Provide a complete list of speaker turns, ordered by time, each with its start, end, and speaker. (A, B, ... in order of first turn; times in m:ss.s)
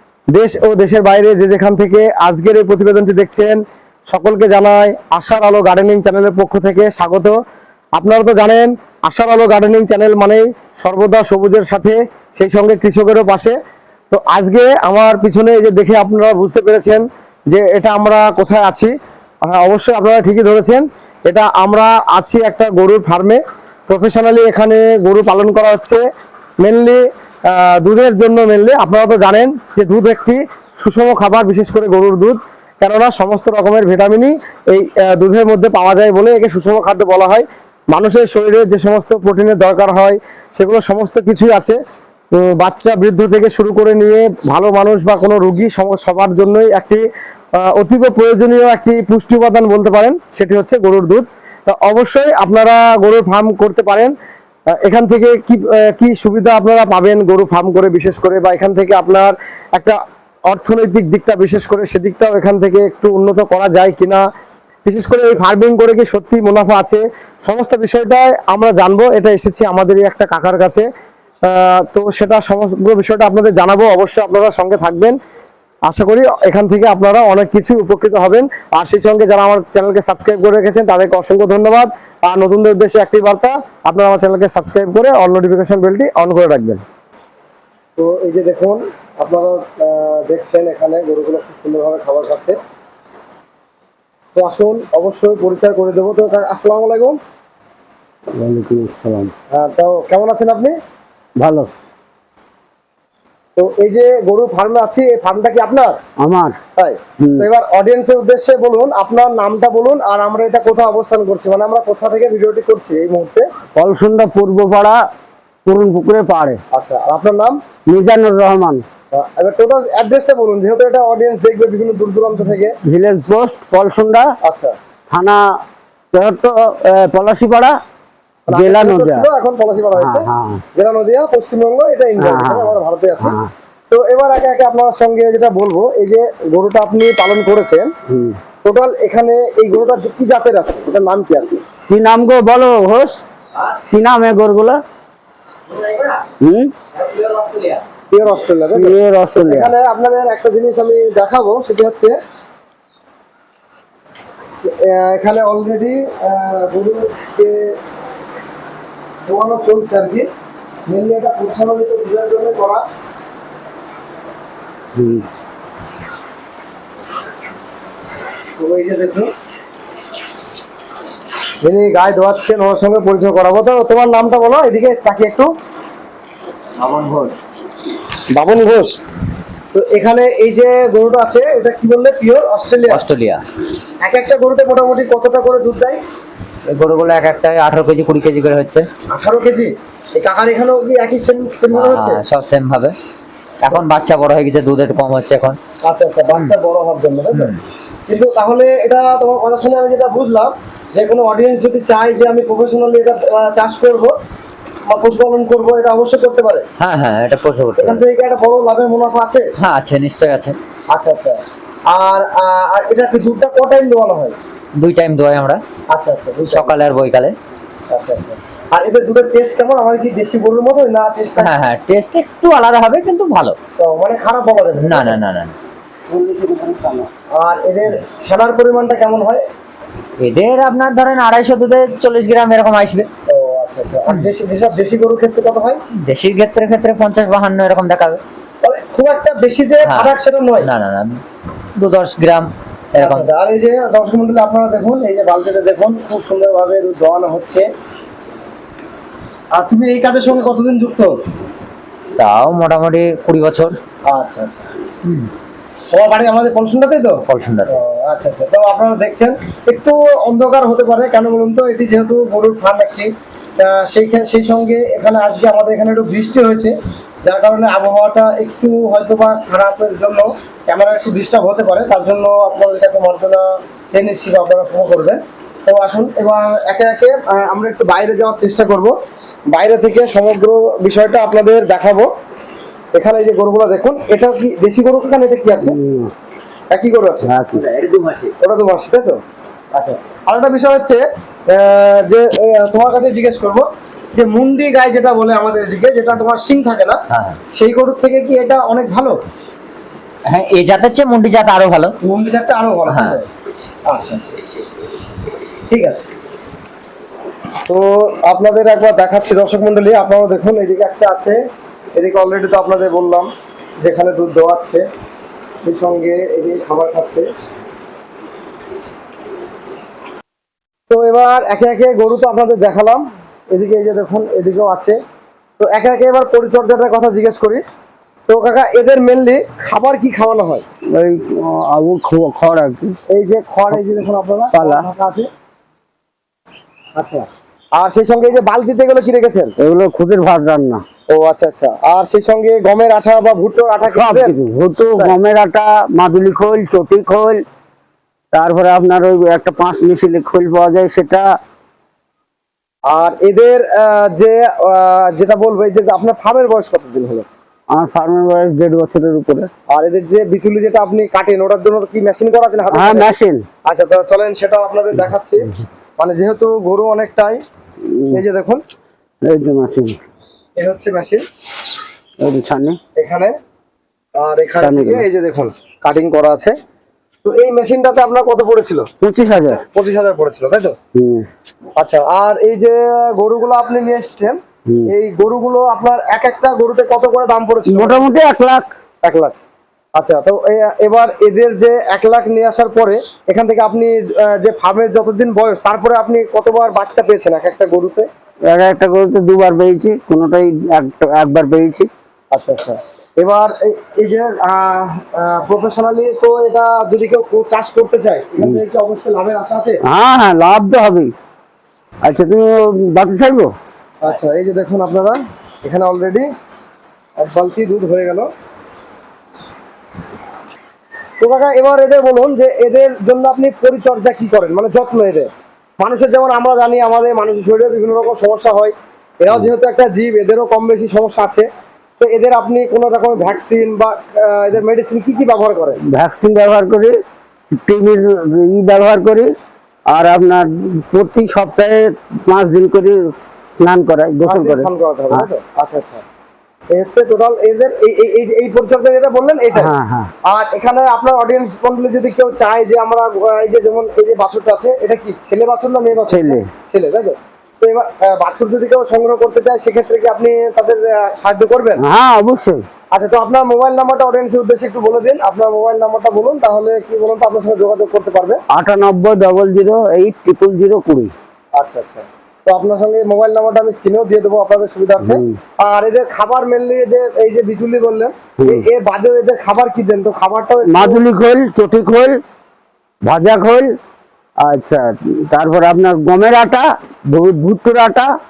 0:00.3-0:07.4 A
0:07.9-0:13.5 A
0:14.1-0:18.9 A
0:19.5-0:26.0 A
0:26.6-0:41.8 A
0:42.3-0:47.0 A
0:47.6-0:54.1 A
0:54.8-1:00.0 A
1:00.5-1:04.2 A
1:04.8-1:10.9 A
1:11.5-1:15.2 A
1:15.9-1:26.8 A
1:28.0-1:32.6 A
1:34.3-1:37.2 A
1:38.3-1:39.3 B
1:39.5-1:40.7 A
1:41.4-1:41.7 B
1:43.6-1:46.0 A
1:46.2-1:46.6 B
1:46.8-1:53.4 A
1:47.2-1:47.5 B
1:53.8-1:55.0 B
1:55.7-1:56.6 B
1:56.7-1:57.6 A
1:57.9-1:58.8 B
1:59.1-2:02.7 A
2:02.8-2:04.3 B
2:04.4-2:04.7 A
2:05.1-2:05.4 B
2:06.1-2:07.8 B
2:08.5-2:13.4 A
2:08.5-2:09.3 B
2:10.0-2:10.6 B
2:12.2-2:13.5 B
2:13.9-2:17.9 A
2:18.1-2:18.4 B
2:18.6-2:21.6 A
2:21.9-2:23.2 B
2:23.9-2:24.8 B
2:25.7-2:26.2 C
2:26.4-2:26.7 B
2:26.9-2:27.8 C
2:28.1-2:32.2 A
2:28.8-2:29.7 B
2:34.6-2:37.7 A
2:39.2-2:40.3 A
2:40.9-2:42.8 A
2:45.0-2:45.2 B
2:48.6-2:49.3 A
2:51.6-2:55.5 A
2:56.8-2:57.3 A
2:58.3-2:58.9 A
2:59.7-3:03.0 A
3:02.9-3:03.4 C
3:04.0-3:06.0 A
3:06.7-3:08.9 C
3:09.1-3:12.2 A
3:11.7-3:12.9 C
3:13.6-3:15.6 C
3:15.8-3:17.5 A
3:17.3-3:17.6 C
3:18.1-3:24.1 A
3:24.9-3:26.6 A
3:26.8-3:28.0 C
3:27.8-3:29.4 A
3:29.6-3:30.6 C
3:30.9-3:31.4 A
3:31.9-3:34.4 A
3:34.8-3:35.6 C
3:35.9-3:36.7 A
3:36.5-3:37.3 C
3:37.9-3:41.5 A
3:41.4-3:43.6 C
3:43.8-3:45.2 A
3:44.8-3:45.6 C
3:46.1-3:47.1 B
3:47.4-3:49.4 A
3:50.2-3:53.1 C
3:53.3-3:55.8 A
3:56.0-3:58.2 C
3:58.6-4:00.7 A
3:59.8-4:01.2 C
4:01.8-4:03.3 C
4:03.0-4:07.6 A
4:09.5-4:11.1 A
4:12.2-4:13.8 C
4:14.1-4:14.6 A
4:15.0-4:15.3 C
4:15.9-4:26.7 A
4:17.3-4:17.8 C
4:27.2-4:38.9 A
4:39.5-4:42.1 A
4:42.9-4:45.8 A
4:45.6-4:46.1 B
4:46.7-4:47.3 A
4:47.2-4:47.6 B
4:47.6-4:48.3 C
4:48.4-4:49.2 A
4:49.7-4:57.0 A
4:57.1-4:57.4 C
4:57.5-4:59.2 A
5:00.3-5:02.0 C
5:02.0-5:03.2 A
5:02.9-5:03.2 C
5:03.9-5:04.4 A
5:05.7-5:06.0 A
5:07.7-5:11.4 A
5:11.9-5:13.3 A
5:13.8-5:14.8 A
5:15.6-5:17.3 A
5:20.9-5:25.0 A
5:25.6-5:27.6 A
5:28.3-5:30.6 A
5:30.9-5:33.0 B
5:33.1-5:35.3 A
5:34.5-5:34.9 B
5:37.0-5:39.5 A
5:39.6-5:40.8 B
5:41.1-5:44.3 A
5:43.9-5:47.4 B
5:48.3-5:51.3 B
5:52.9-5:57.2 A
5:57.7-5:59.5 B
5:59.7-6:03.1 A
6:02.7-6:03.4 B
6:03.7-6:07.4 A
6:07.8-6:08.2 B
6:08.1-6:08.6 A
6:09.2-6:10.0 B
6:10.6-6:11.2 A
6:12.2-6:12.8 B
6:13.0-6:13.3 A
6:14.2-6:16.6 A
6:14.6-6:15.1 B
6:17.2-6:18.9 A
6:19.0-6:19.6 B
6:19.7-6:20.8 A
6:20.9-6:21.2 B
6:21.8-6:28.0 A
6:27.7-6:28.7 B
6:29.0-6:29.4 A
6:30.0-6:38.1 A
6:38.5-6:41.9 B
6:42.3-6:49.8 A
6:49.9-6:51.1 B
6:52.0-6:53.5 B
6:54.0-6:56.3 A
6:57.2-6:58.3 A
7:01.2-7:05.3 A
7:05.8-7:11.4 A
7:12.0-7:15.8 A
7:15.9-7:16.9 B
7:17.5-7:19.3 B
7:19.9-7:25.3 B
7:24.2-7:26.0 A
7:26.7-7:29.7 A
7:29.6-7:30.1 B
7:30.3-7:41.8 A
7:36.1-7:36.5 B
7:41.8-7:42.6 B
7:42.9-7:48.4 A
7:48.5-7:51.1 B
7:51.6-8:01.0 A
7:55.0-7:55.4 B
7:58.4-7:58.6 B
8:00.7-8:02.2 B
8:03.1-8:03.7 B
8:04.4-8:08.1 B